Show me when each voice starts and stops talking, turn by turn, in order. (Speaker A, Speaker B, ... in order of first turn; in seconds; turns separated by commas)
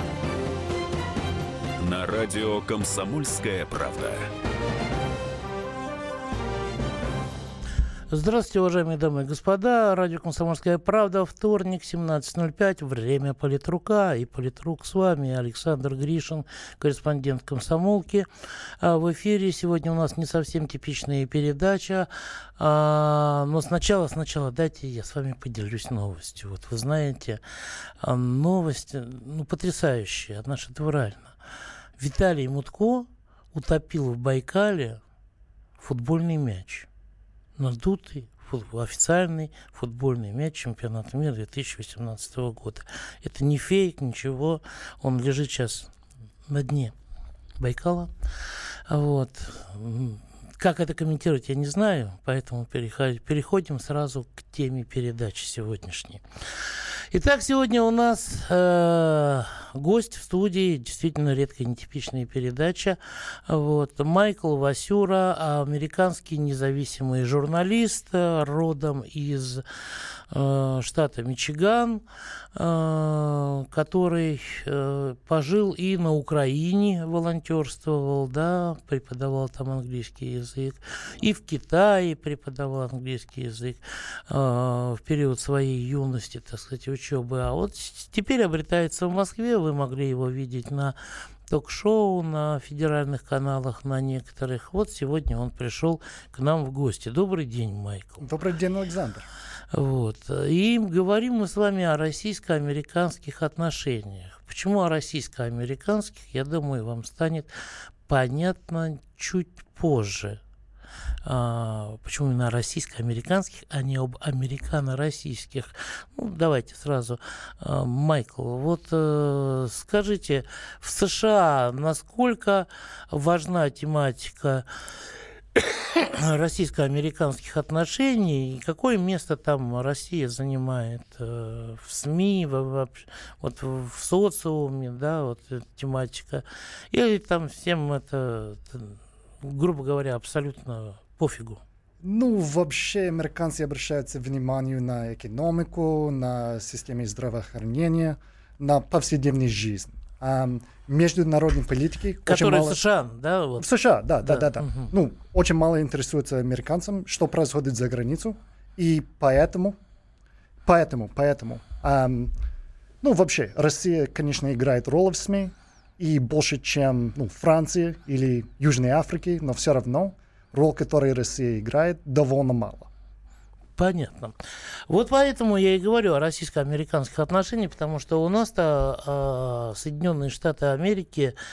Speaker A: 1.8-4.3, Speaker B: 8.1-18.3, Speaker B: 18.8-27.4, Speaker B: 28.0-31.3, Speaker B: 32.0-35.0, Speaker B: 35.8-36.9, Speaker B: 37.6-45.9, Speaker B: 46.5-46.9, Speaker B: 47.6-48.1, Speaker B: 48.9-56.2, Speaker B: 57.1-69.6, Speaker B: 70.3-72.0, Speaker B: 72.5-91.0, Speaker B: 91.5-98.3, Speaker C: 98.2-99.3, Speaker B: 99.7-107.5, Speaker B: 108.1-110.4, Speaker B: 111.2-124.7, Speaker B: 125.9-141.6, Speaker C: 142.0-152.8, Speaker B: 152.3-153.7, Speaker C: 153.6-159.8, Speaker B: 154.2-154.9, Speaker C: 160.7-162.3, Speaker C: 163.0-172.9, Speaker B: 173.8-174.3, Speaker B: 174.9-181.3